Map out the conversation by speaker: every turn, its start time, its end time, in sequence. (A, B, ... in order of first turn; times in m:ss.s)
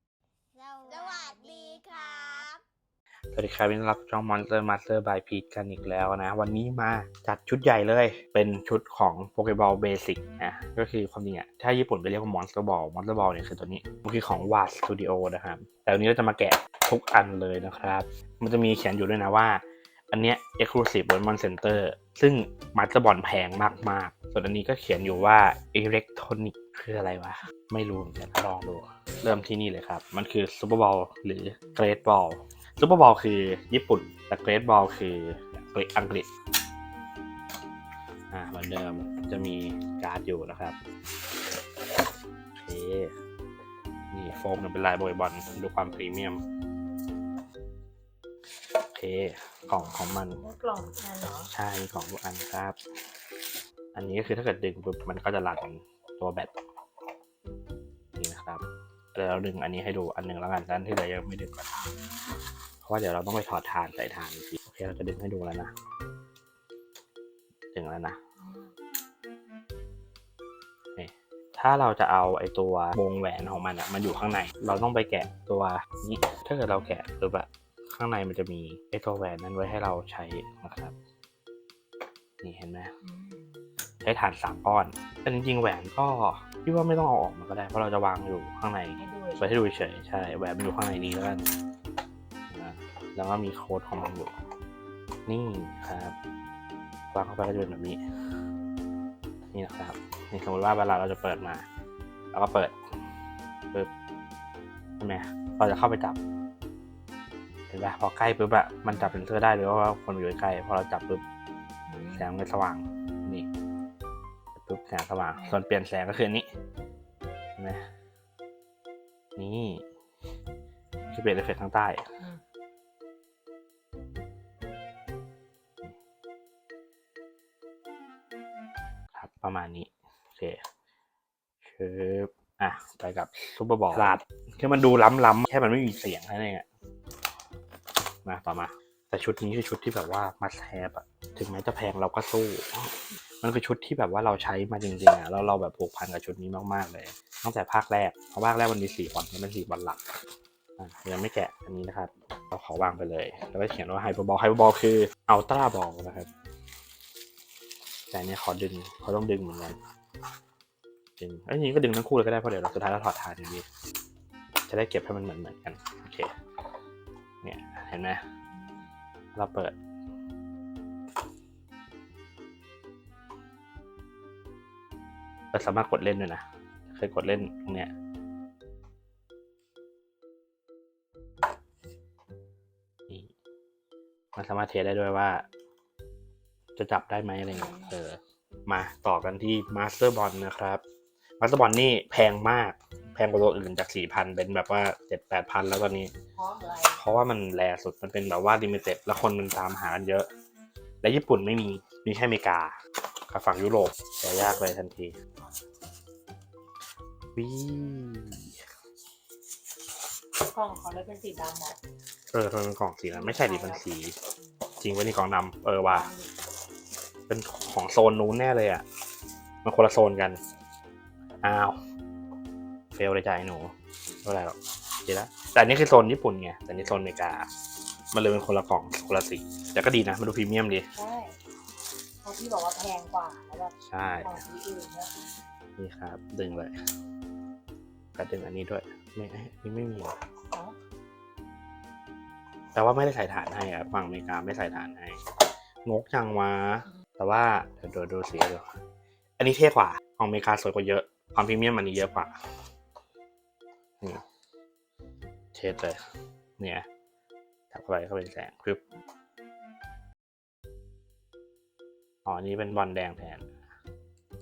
0:00.5-0:02.6 A
0:03.3-0:36.3 B
0:38.3-0:40.8 B
0:42.6-0:43.1 B
0:44.1-0:46.4 B
0:48.9-0:50.4 B
0:49.7-0:51.5 C
0:51.5-0:52.8 B
0:53.9-0:56.5 B
0:58.2-0:58.6 B
0:59.1-1:02.0 B
1:02.8-1:05.7 B
1:07.7-1:08.2 B
1:11.0-1:21.0 B
1:22.4-1:22.9 B
1:23.0-1:23.5 C
1:24.0-1:31.5 B
1:29.0-1:29.6 C
1:32.5-1:34.3 B
1:35.3-1:36.1 B
1:37.1-1:38.0 B
1:39.5-1:41.6 B
1:42.3-1:42.7 B
1:45.0-1:46.2 B
1:47.7-1:51.2 B
1:48.9-1:49.2 C
1:51.9-1:52.3 C
1:52.1-1:53.5 B
1:54.6-1:56.5 B
1:57.6-1:57.8 B
1:59.4-1:59.8 B
2:01.1-2:02.0 B
2:09.1-2:10.6 B
2:11.6-2:16.6 B
2:18.2-2:30.0 B
2:30.8-2:36.3 B
2:38.1-2:39.8 B
2:41.2-2:43.7 B
2:44.7-2:46.3 B
2:47.4-2:48.2 B
2:48.5-2:48.9 C
2:49.4-2:49.8 B
2:55.5-2:57.9 B
3:04.4-3:05.4 B
3:06.8-3:10.8 B
3:07.5-3:08.0 C
3:11.4-3:16.1 B
3:16.4-3:17.0 C
3:17.0-3:20.3 B
3:21.0-3:22.8 B
3:23.3-3:25.1 B
3:27.4-3:28.5 B
3:30.4-3:31.8 C
3:32.3-3:34.2 B
3:33.1-3:33.8 C
3:34.8-3:36.1 B
3:35.8-3:36.3 C
3:37.3-3:38.8 B
3:39.6-3:40.4 B
3:41.4-3:41.8 B
3:43.0-3:43.7 B
3:44.2-3:47.5 B
3:48.1-3:50.9 B
3:51.0-3:51.4 C
3:52.2-3:55.1 C
3:53.9-3:54.4 B
3:55.8-3:56.7 B
3:58.2-4:00.2 B
4:02.8-4:05.2 B
4:05.8-4:08.6 B
4:09.4-4:12.3 B
4:15.5-4:16.0 B
4:16.6-4:16.9 B
4:17.7-4:18.8 B
4:22.2-4:23.5 B